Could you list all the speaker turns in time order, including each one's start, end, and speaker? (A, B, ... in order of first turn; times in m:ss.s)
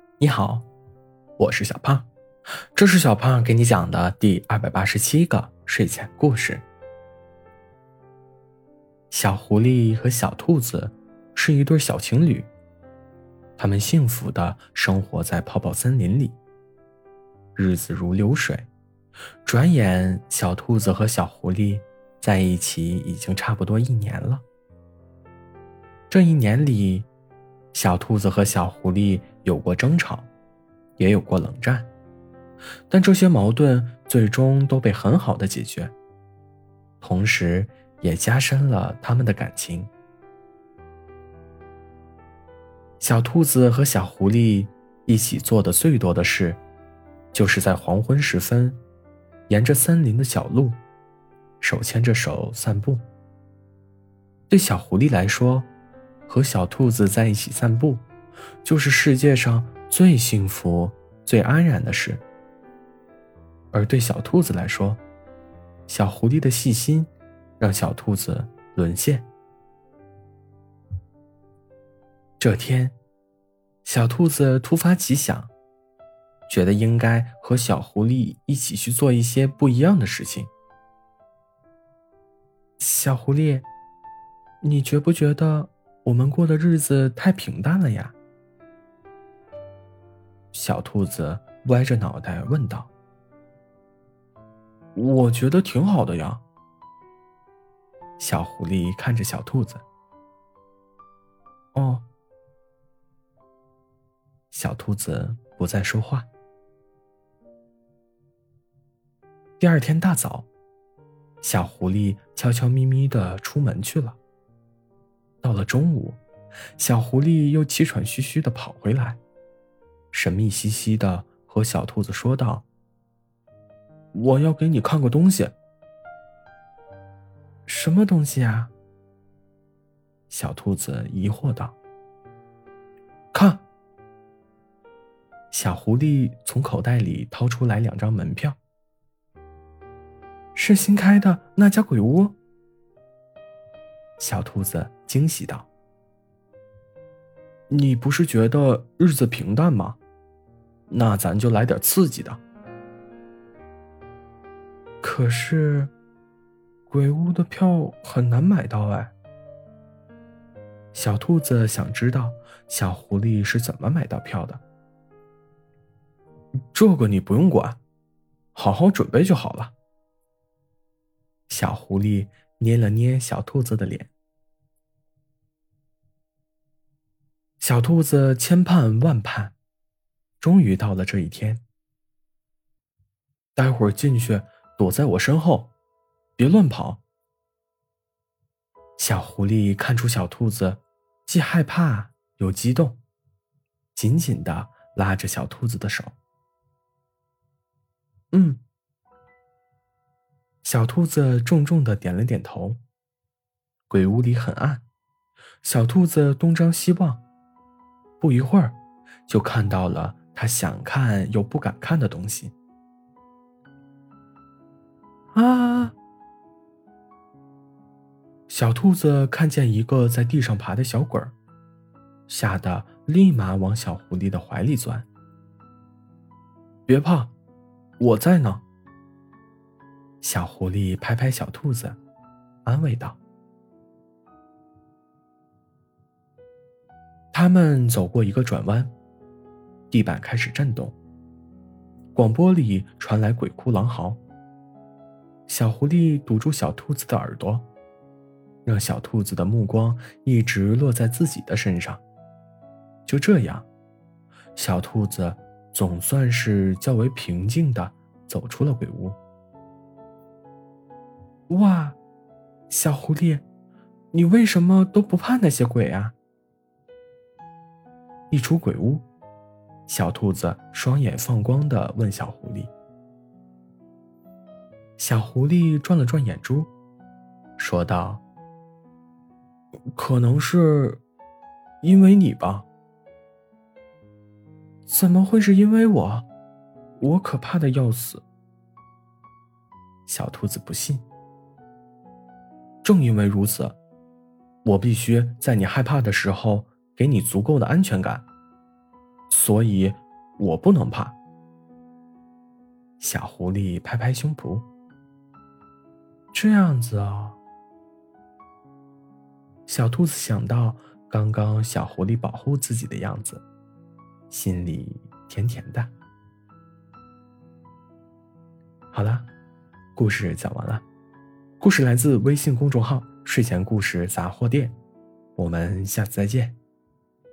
0:00.2-0:00.7 A
0:01.4-0:02.1 A
0:02.7-0:06.6 A
0:09.1-0:12.5 A
0:13.6-0:16.4 A
0:17.6-0:18.7 A
0:19.4-0:24.4 A
0:26.1-0:27.1 A
0:27.7-0:30.3 A
0:31.0-0:31.9 A
0:32.9-0:35.9 A
0:37.0-0:39.9 A
0:43.0-0:46.6 A
0:47.3-0:48.8 A
0:49.5-0:50.8 A
0:51.6-0:53.0 A
0:54.5-0:55.7 A
0:56.3-0:58.0 A
0:58.6-1:02.2 A
1:03.7-1:05.0 A
1:05.9-1:09.3 A
1:12.4-1:13.0 A
1:13.8-1:15.5 A
1:16.5-1:20.5 A
1:22.8-1:23.7 A
1:24.6-1:28.1 A
1:30.5-1:32.9 A
1:34.9-1:36.4 A
1:38.2-1:39.8 A
1:41.7-1:42.0 A
1:44.5-1:46.3 A
1:49.6-1:50.5 A
1:51.4-1:54.2 A
1:55.4-1:56.2 A
1:56.8-1:59.2 A
2:00.1-2:02.6 A
2:04.1-2:05.6 A
2:07.7-2:08.7 A
2:10.3-2:11.8 A
2:13.3-2:13.6 A
2:15.5-2:18.6 A
2:20.5-2:22.4 A
2:24.2-2:25.7 A
2:27.7-2:30.0 A
2:30.9-2:32.4 A
2:35.0-2:35.9 A
2:36.9-2:39.1 A
2:40.9-2:44.6 A
2:46.7-2:47.8 A
2:48.5-2:49.7 A
2:51.5-2:54.1 A
2:57.6-2:59.5 A
3:00.4-3:01.6 A
3:03.6-3:05.7 A
3:06.4-3:07.0 A
3:09.0-3:13.0 A
3:13.9-3:16.2 A
3:18.3-3:18.6 A
3:20.6-3:22.8 A
3:23.9-3:24.8 A
3:25.6-3:27.2 A
3:28.2-3:32.5 A
3:35.3-3:35.9 A
3:38.5-3:41.3 A
3:42.3-3:45.1 A
3:46.9-3:47.3 A
3:48.0-3:48.6 A
3:50.2-3:52.0 A
3:52.6-3:53.2 A
3:57.3-3:58.9 A
3:59.9-4:01.0 A
4:02.1-4:04.2 A
4:05.5-4:07.7 A
4:08.6-4:12.0 A
4:13.1-4:13.7 A
4:14.6-4:19.2 A
4:21.5-4:22.0 A
4:22.7-4:23.4 A
4:24.1-4:26.2 A
4:28.3-4:29.1 A
4:29.9-4:32.7 A
4:35.0-4:36.7 A
4:37.6-4:38.2 A
4:39.9-4:41.0 A
4:41.8-4:42.7 A
4:44.9-4:46.3 A
4:47.0-4:48.2 A
4:50.1-4:51.0 A
4:52.8-4:53.8 A
4:54.6-4:58.3 A
4:59.3-5:01.2 A
5:03.0-5:04.7 A
5:06.3-5:07.4 A
5:09.7-5:13.4 A
5:14.3-5:15.9 A
5:18.9-5:19.3 A
5:20.0-5:20.8 A
5:21.6-5:24.8 A
5:25.4-5:26.6 A